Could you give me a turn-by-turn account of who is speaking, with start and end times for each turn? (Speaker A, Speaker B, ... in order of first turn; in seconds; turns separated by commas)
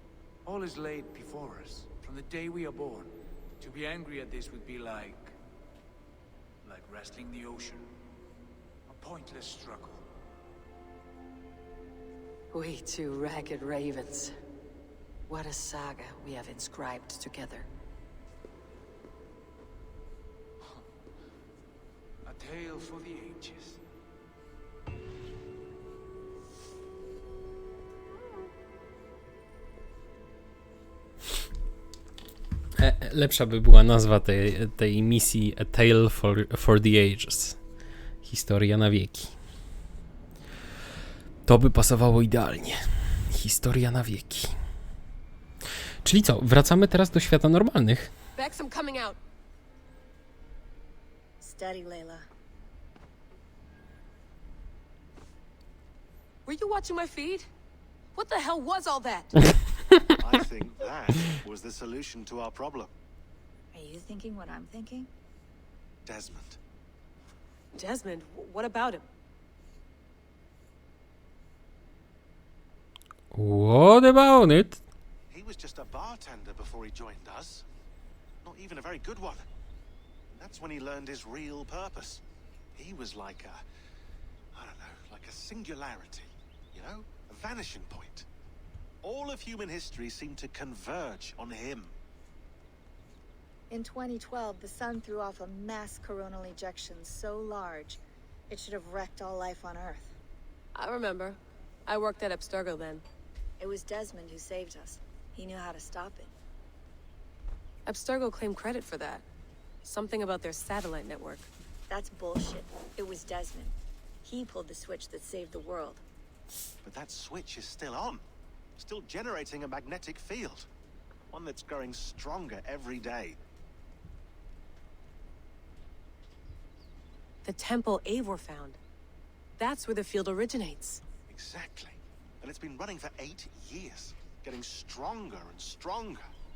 Speaker A: 0.4-5.4, Speaker A: 6.6-7.9, Speaker A: 8.9-10.1, Speaker B: 12.5-14.3, Speaker B: 15.3-17.7, Speaker A: 22.2-23.8, Speaker C: 32.8-37.6, Speaker C: 38.2-39.4, Speaker C: 41.5-44.5, Speaker C: 46.0-48.1, Speaker D: 48.4-49.2, Speaker E: 51.4-52.2, Speaker D: 56.4-57.5, Speaker D: 58.1-59.5, Speaker F: 60.2-62.9, Speaker E: 63.7-65.1, Speaker F: 66.0-66.6, Speaker D: 67.7-69.0, Speaker C: 73.3-74.8, Speaker F: 75.3-77.6, Speaker F: 78.4-79.5, Speaker F: 80.3-82.2, Speaker F: 82.7-83.6, Speaker F: 84.5-88.3, Speaker F: 89.0-91.9, Speaker E: 93.7-100.1, Speaker D: 100.7-103.0, Speaker E: 103.6-106.3, Speaker D: 107.8-109.2, Speaker D: 109.8-111.5, Speaker E: 111.9-116.0, Speaker F: 116.8-118.2, Speaker F: 118.8-120.7, Speaker F: 121.3-123.4, Speaker D: 127.4-128.8, Speaker D: 129.6-131.0, Speaker F: 131.3-136.3